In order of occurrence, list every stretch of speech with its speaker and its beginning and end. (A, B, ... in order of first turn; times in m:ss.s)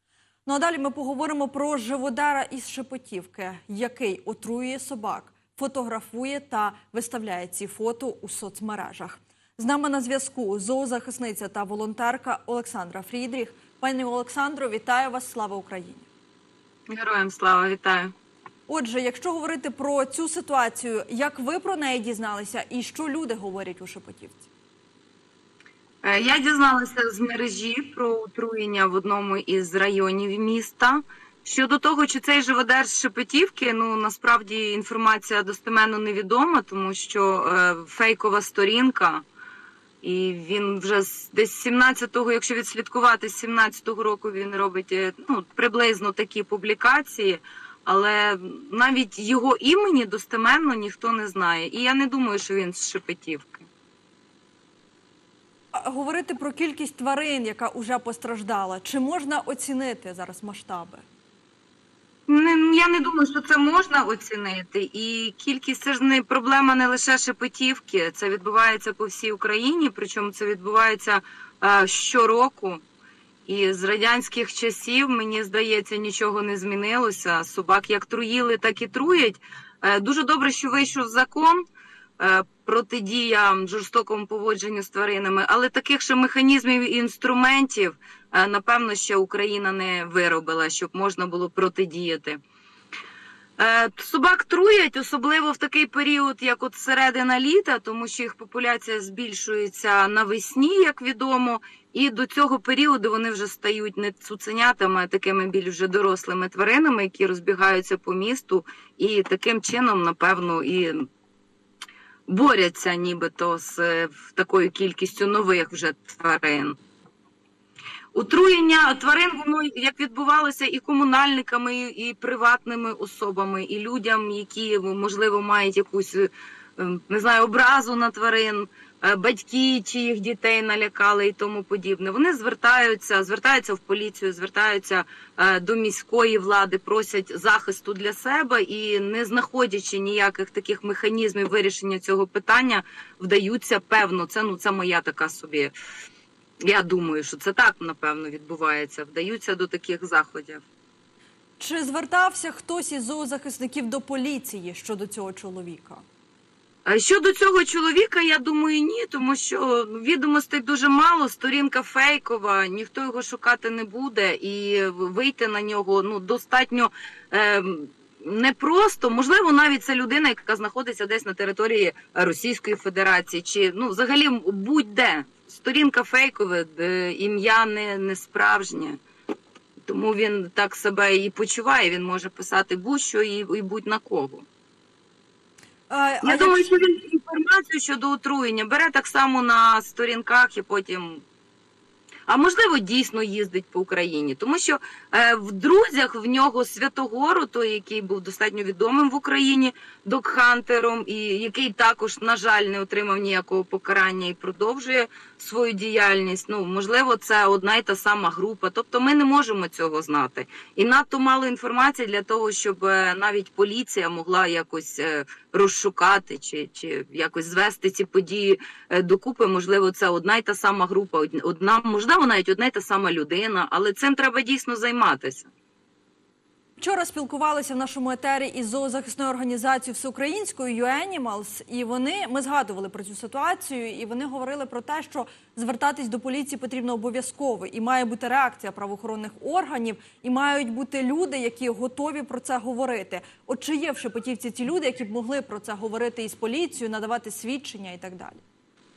0:00.5-0:16.1 A
0:16.9-0:18.1 B
0:18.7-0:24.5 A
0:26.0-0:39.2 B
0:40.0-0:53.7 B
0:55.7-1:01.0 A
1:02.3-1:12.8 B
1:13.5-1:21.6 B
1:22.2-1:32.4 B
1:33.6-1:51.1 B
1:52.3-1:56.8 B
1:58.1-2:25.7 B
2:26.6-2:30.6 B
2:31.6-2:36.0 A
2:36.9-2:59.0 B
2:59.9-3:04.5 B
3:05.9-3:06.8 A
3:06.2-3:11.2 B
3:12.3-3:45.5 B
3:46.8-4:08.4 A